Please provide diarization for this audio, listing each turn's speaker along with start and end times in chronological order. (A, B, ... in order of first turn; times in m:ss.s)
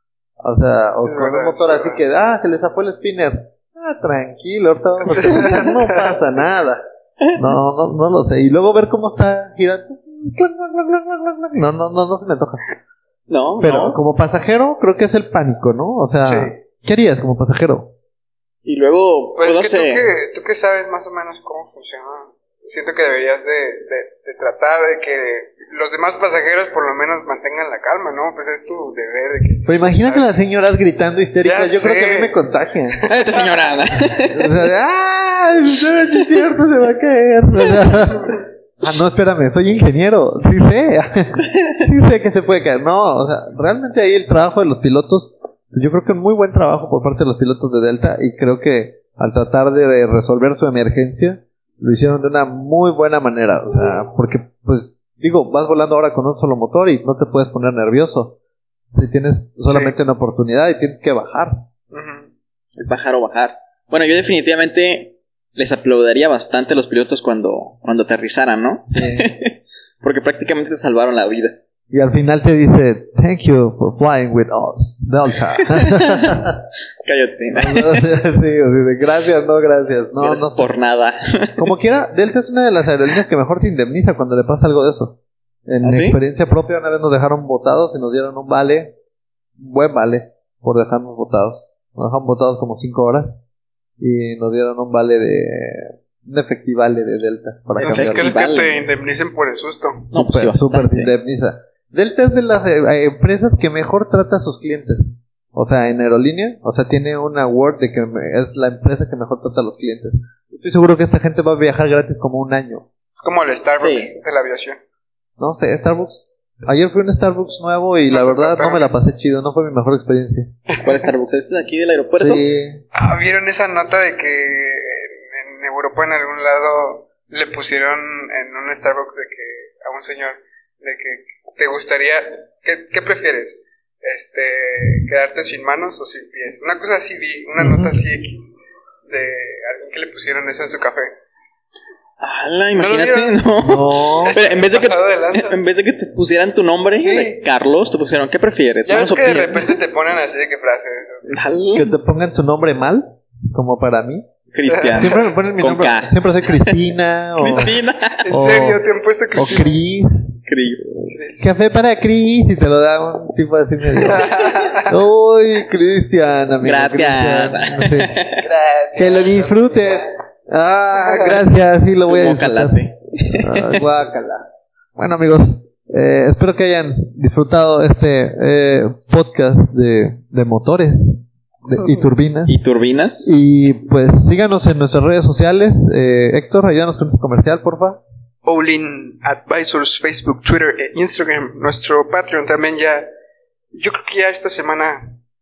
0:00.4-0:06.8 A
0:01.0-0:02.0 B
0:05.2-0:06.1 B
0:07.4-0:12.6 A
0:13.3-0:14.0 C
0:13.6-0:17.9 A
0:16.2-0:16.5 B
0:18.6-0:20.0 C
0:19.4-0:30.4 B
0:29.6-0:33.0 A
0:31.4-0:32.4 B
0:32.9-0:33.6 B
0:33.1-0:34.7 C
0:34.3-0:58.4 A
0:58.9-1:01.7 A
0:59.7-1:00.0 B
1:01.9-1:02.3 B
1:02.8-1:11.6 C
1:08.9-1:09.3 A
1:11.9-1:16.6 A
1:15.6-1:16.5 C
1:17.0-1:18.0 C
1:17.5-1:20.8 A
1:20.2-1:21.7 C
1:21.6-1:25.2 A
1:25.7-1:28.9 A
1:25.8-1:26.2 C
1:29.6-1:33.3 A
1:34.0-1:38.3 A
1:37.8-1:38.8 C
1:37.8-1:40.1 B
1:40.1-1:52.9 A
1:40.1-1:41.1 C
1:53.1-1:54.8 B
1:53.8-1:54.1 C
1:55.4-2:00.5 A
1:58.1-1:58.9 B
2:00.7-2:01.0 B
2:00.8-2:02.4 C
2:02.2-2:02.8 A
2:02.9-2:18.4 B
2:17.6-2:18.0 A
2:19.1-2:21.1 B
2:22.2-2:29.8 C
2:22.8-2:23.4 B
2:23.6-2:24.4 A
2:24.2-2:25.6 B
2:27.0-2:27.4 B
2:28.8-2:31.3 B
2:31.3-2:31.9 C
2:31.7-2:34.2 A
2:34.5-2:36.8 C
2:34.7-2:35.4 B
2:34.9-2:40.4 A
2:37.4-2:38.3 C
2:37.4-2:37.7 B
2:38.2-2:39.8 B
2:40.5-2:41.0 C
2:41.0-2:41.5 B
2:41.4-2:48.2 A
2:44.0-2:45.0 B
2:46.6-2:48.4 C
2:48.4-2:50.0 B
2:49.0-2:54.4 A
2:51.0-2:51.4 B
2:52.1-2:53.8 C
2:55.0-3:02.6 A
3:02.5-3:03.3 C
3:03.2-3:08.0 A
3:08.4-3:13.1 B
3:13.7-3:15.1 B